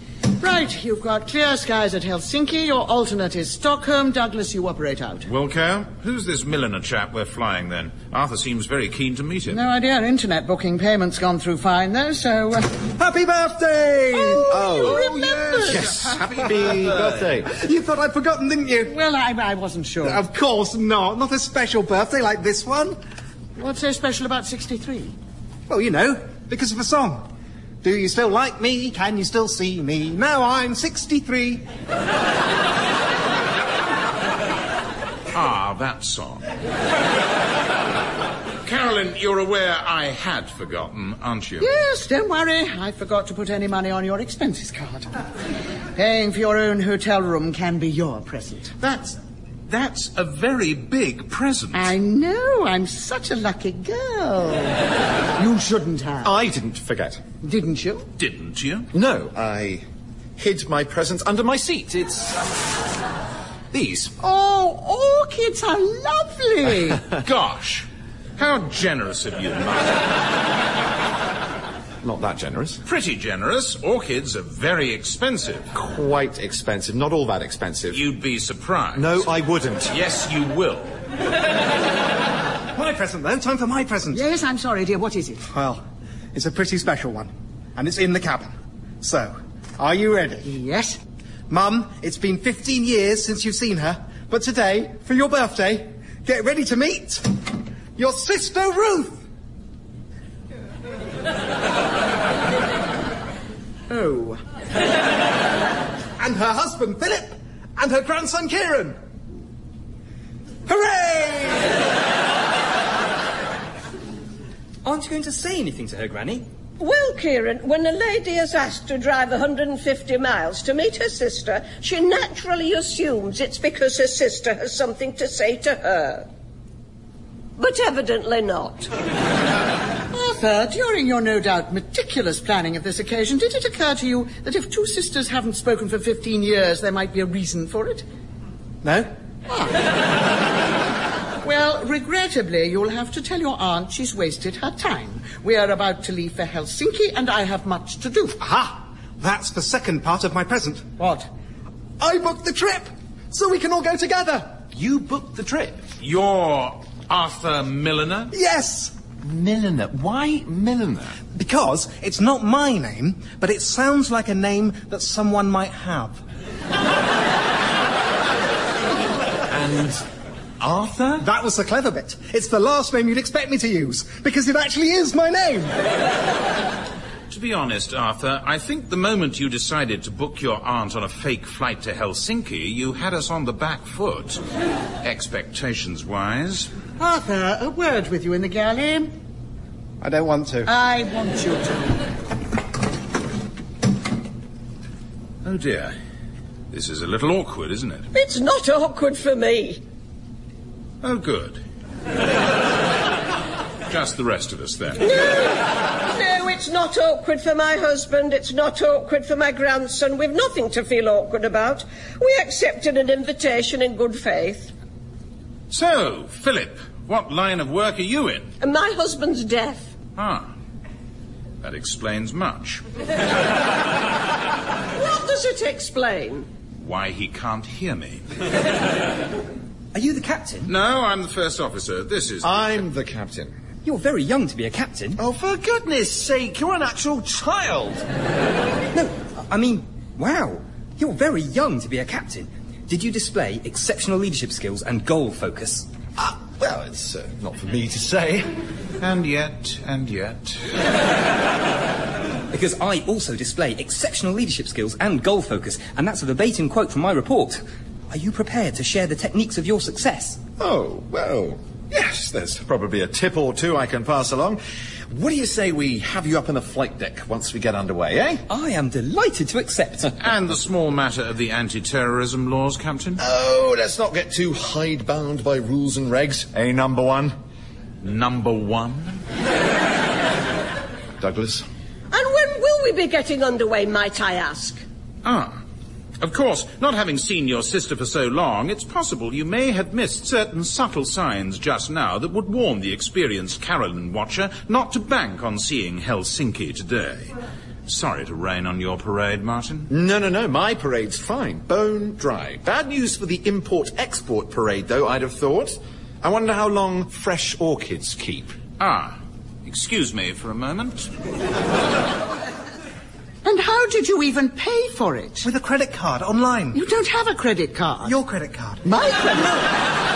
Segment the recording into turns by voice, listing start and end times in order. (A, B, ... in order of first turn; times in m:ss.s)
0:00.4-0:05.3 A
0:05.2-0:09.6 B
0:09.5-0:12.8 A
0:13.0-0:15.8 C
0:14.2-0:15.6 A
0:14.5-0:15.1 D
0:15.6-0:17.5 D
0:17.5-0:18.9 C
0:18.8-0:20.2 A
0:20.0-0:23.0 C
0:23.6-0:25.2 A
0:25.7-0:27.3 C
0:27.8-0:31.7 C
0:35.3-0:36.5 B
0:38.6-0:41.7 B
0:41.6-0:45.1 A
0:46.0-0:49.2 A
0:49.7-0:51.9 B
0:51.7-0:56.4 A
0:56.2-0:57.2 D
0:57.4-0:58.1 A
0:58.2-0:58.9 B
0:58.9-0:59.8 D
1:00.4-1:02.5 D
1:03.7-1:04.1 D
1:04.2-1:07.1 A
1:07.2-1:10.1 B
1:12.0-1:12.8 D
1:12.8-1:15.7 B
1:15.7-1:18.0 D
1:17.9-1:19.3 B
1:18.9-1:20.0 D
1:19.9-1:20.9 B
1:22.7-1:24.2 C
1:24.1-1:25.4 A
1:25.4-1:25.8 C
1:26.3-1:30.5 C
1:30.4-1:31.0 A
1:31.5-1:37.3 C
1:38.0-1:39.2 C
1:43.9-1:44.4 A
1:46.2-1:49.0 C
1:50.7-1:51.7 C
1:54.8-1:56.4 E
1:56.8-2:06.2 F
2:07.6-2:08.9 F
2:10.1-2:18.0 A
2:18.8-2:19.1 C
2:19.5-2:19.8 A
2:21.4-2:28.4 A
2:28.4-2:30.9 C
2:31.0-2:31.2 A
2:32.0-2:34.5 C
2:34.6-2:35.8 D
2:36.0-2:38.3 B
2:38.3-2:38.9 C
2:39.2-2:41.2 D
2:41.3-2:46.2 C
2:49.5-2:50.0 D
2:50.6-2:51.2 D
2:51.2-2:55.9 C
2:57.3-3:04.4 B
3:05.0-3:06.7 B
3:07.0-3:09.1 A
3:10.0-3:10.7 C
3:10.7-3:12.1 A
3:15.4-3:15.9 B
3:16.7-3:18.1 B
3:18.1-3:19.8 F
3:21.0-3:21.6 B
3:23.9-3:25.1 B
3:25.0-3:34.7 F
3:35.7-3:38.5 B
3:38.6-3:39.9 F
3:40.2-3:40.5 B
3:41.6-3:42.8 B
3:44.9-3:46.5 F
3:46.8-3:48.2 B
3:49.9-3:50.7 E
3:50.7-3:52.6 B
3:52.4-3:53.5 D
3:53.8-3:55.2 E
3:55.2-3:58.0 D
3:58.9-4:05.9 E
4:06.2-4:08.5 D
4:09.0-4:10.8 B
4:12.5-4:20.4 E
4:20.6-4:28.4 D
4:28.5-4:30.1 E
4:30.2-4:33.2 B
4:33.2-4:37.3 D
4:38.0-4:39.2 B
4:41.2-4:41.6 D
4:42.1-4:44.8 F
4:45.2-4:45.6 B
4:46.2-4:57.3 B
4:57.9-4:59.9 B
4:59.9-5:08.6 D
5:08.8-5:11.1 B
5:13.4-5:15.5 A
5:15.4-5:16.8 C
5:16.7-5:18.2 A
5:18.0-5:18.8 C
5:18.8-5:19.8 A